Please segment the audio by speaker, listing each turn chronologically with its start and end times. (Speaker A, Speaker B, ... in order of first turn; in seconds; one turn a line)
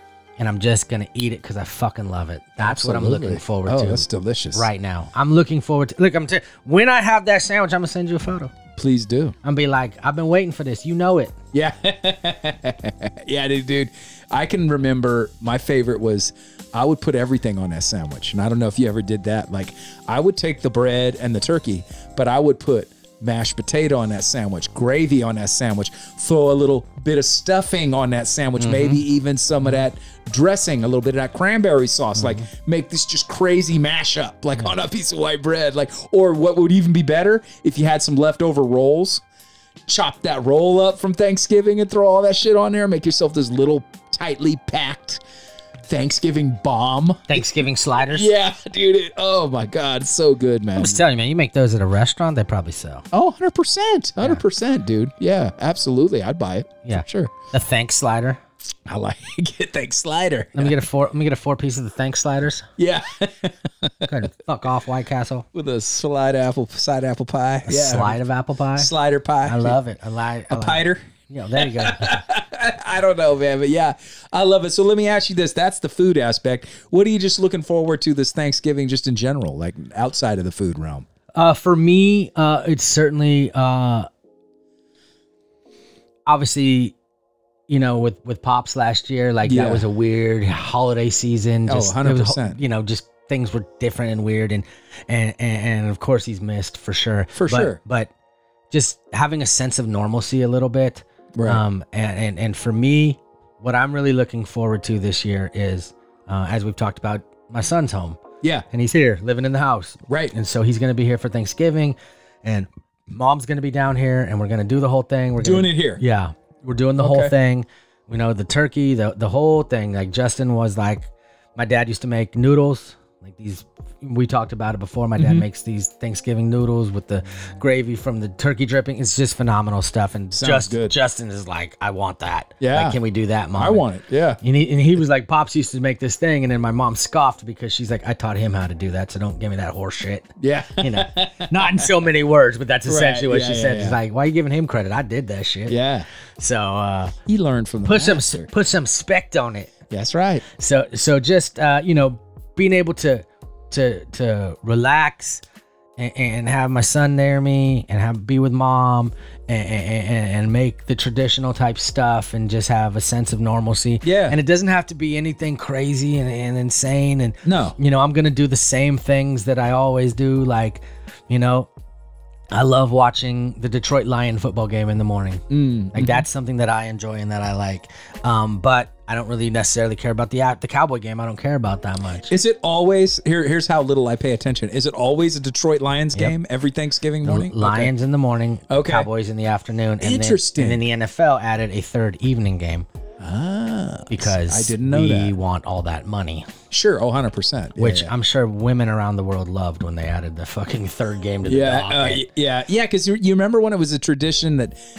Speaker A: 0.4-8.5
Speaker B: 2.6-4.7
Speaker B: 8.8-9.4
Speaker A: 9.4-11.3
Speaker B: 11.5-39.2
Speaker A: 28.6-29.0
Speaker A: 32.2-32.5
Speaker B: 39.9-45.2
Speaker B: 45.9-47.5
Speaker A: 47.3-48.3
Speaker B: 48.1-51.0
Speaker A: 50.8-53.0
Speaker B: 53.1-57.3
Speaker A: 56.9-58.4
Speaker B: 58.9-60.8
Speaker A: 60.5-62.7
Speaker B: 62.8-64.3
Speaker A: 64.1-65.5
Speaker B: 65.5-68.2
Speaker A: 67.7-68.9
Speaker B: 68.8-69.8
Speaker A: 69.4-72.2
Speaker B: 70.5-81.1
Speaker A: 81.4-84.1
Speaker A: 86.3-87.0
Speaker A: 87.7-98.1
Speaker B: 89.4-89.9
Speaker B: 91.7-92.6
Speaker B: 97.3-97.8
Speaker A: 98.7-108.2
Speaker B: 101.3-101.6
Speaker A: 108.7-133.8
Speaker B: 110.1-110.3
Speaker B: 115.4-116.0
Speaker B: 117.0-117.3
Speaker B: 125.2-125.5
Speaker B: 130.3-131.0
Speaker B: 132.6-133.0
Speaker B: 133.6-134.4
Speaker A: 134.4-145.8
Speaker B: 140.4-141.9
Speaker B: 142.9-144.0
Speaker B: 145.7-146.1
Speaker A: 146.4-147.2
Speaker B: 147.3-148.5
Speaker A: 147.8-149.7
Speaker B: 149.9-150.4
Speaker A: 150.5-155.4
Speaker A: 156.0-171.7
Speaker B: 164.0-164.4
Speaker B: 167.4-167.8
Speaker A: 172.5-182.3
Speaker B: 175.5-176.2
Speaker B: 182.3-187.9
Speaker A: 187.2-192.9
Speaker B: 188.7-189.1
Speaker B: 190.0-190.8
Speaker B: 193.2-195.3
Speaker A: 194.1-196.5
Speaker B: 196.7-198.1
Speaker A: 197.8-202.3
Speaker B: 201.5-204.8